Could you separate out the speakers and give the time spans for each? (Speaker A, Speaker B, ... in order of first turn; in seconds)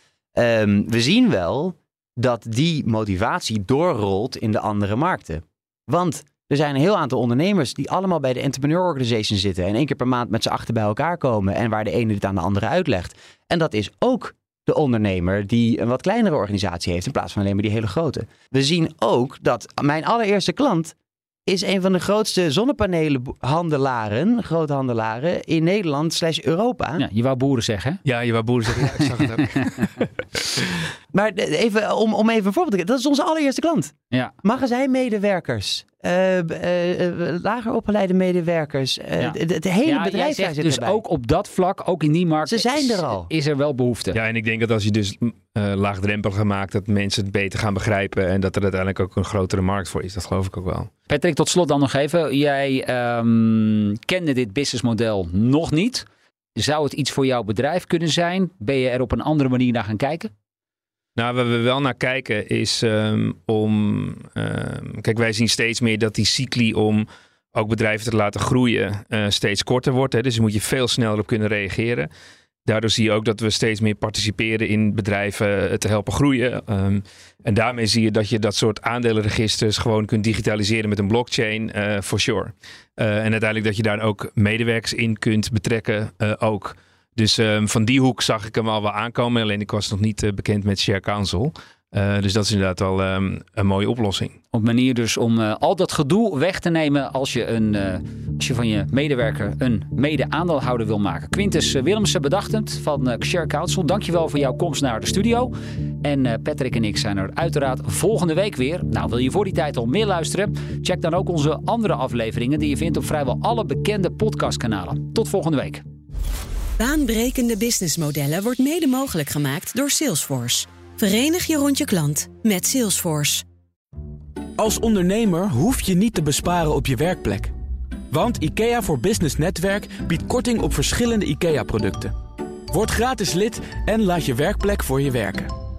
Speaker A: 0.3-20.9, 21.5-27.0, 31.1-41.0, 42.5-43.3
Speaker B: 27.0-28.0, 28.8-29.8, 39.2-44.2, 51.1-56.0, 56.5-60.3, 94.5-115.8
Speaker C: 28.0-30.8, 44.1-50.9, 61.1-72.1, 72.7-94.4
Speaker D: 116.8-123.4
Speaker E: 124.6-127.5, 128.1-132.1, 132.7-135.5